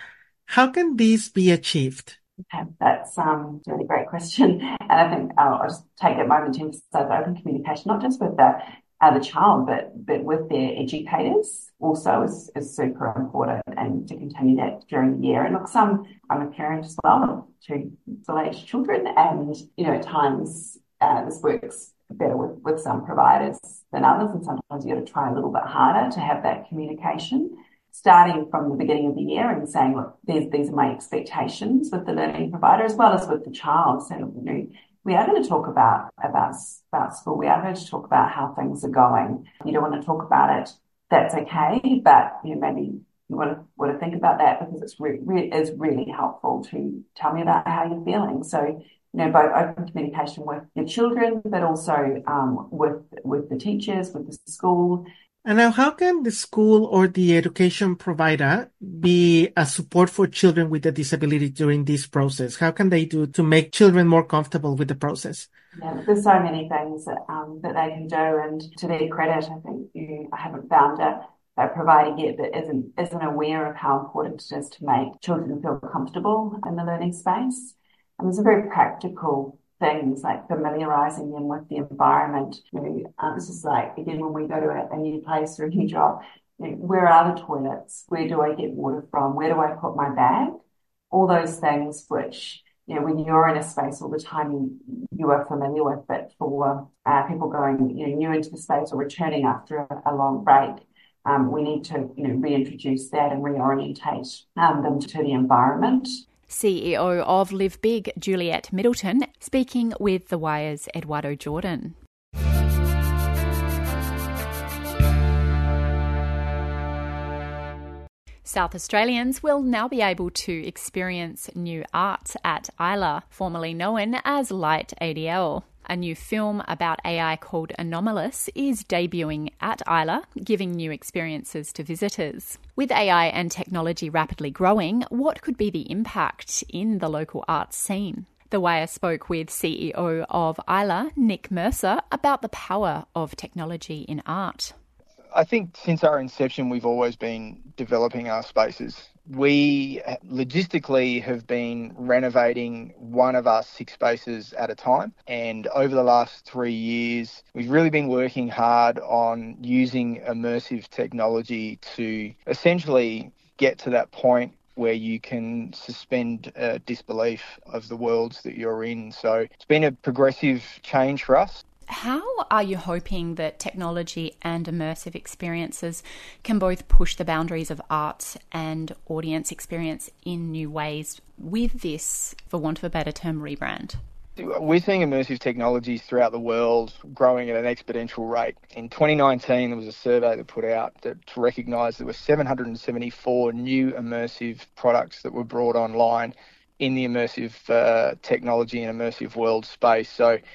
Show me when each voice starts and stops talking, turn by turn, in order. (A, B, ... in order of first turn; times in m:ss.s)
0:00.5-0:02.1 A
0:02.5-0:55.0 B
0:55.4-1:05.5 A
1:05.8-1:30.6 B
1:31.1-1:46.2 B
1:46.5-1:52.0 C
1:58.4-2:24.7 C
2:25.3-2:51.6 D
2:51.9-3:04.0 C
3:04.4-3:20.4 D